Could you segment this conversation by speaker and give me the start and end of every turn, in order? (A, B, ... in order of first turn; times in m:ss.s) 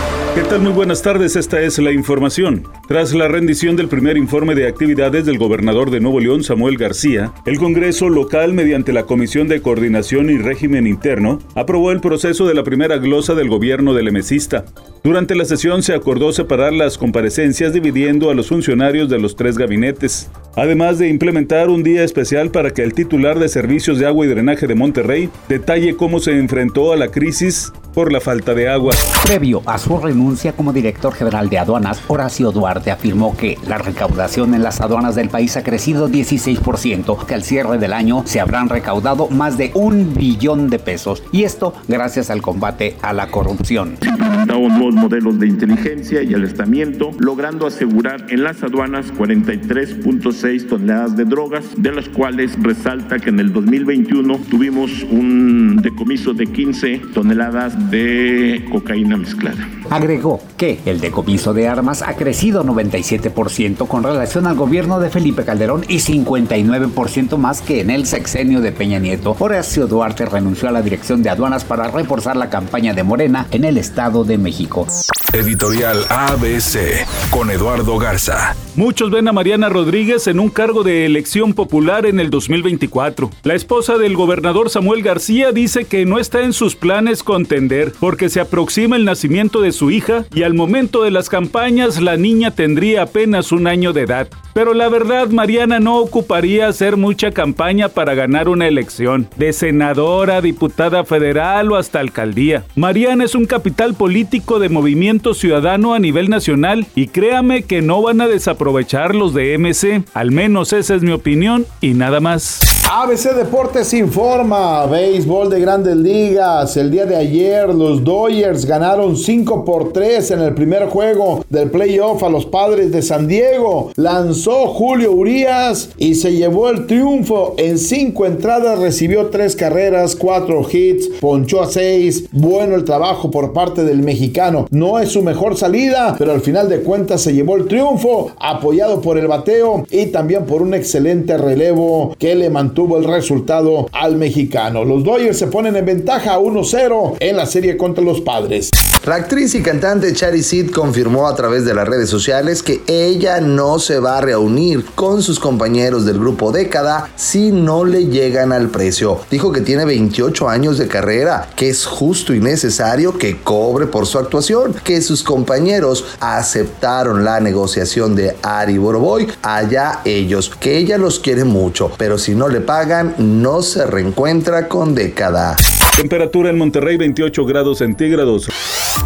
0:00.3-0:29.0 A
0:29.1-0:44.0 B
0:44.0-0:59.7 C
0:59.9-1:14.9 B
1:15.3-1:18.6 D
1:18.6-1:52.6 A
1:52.8-2:28.7 E
2:29.0-2:55.6 F
2:56.0-2:58.5 A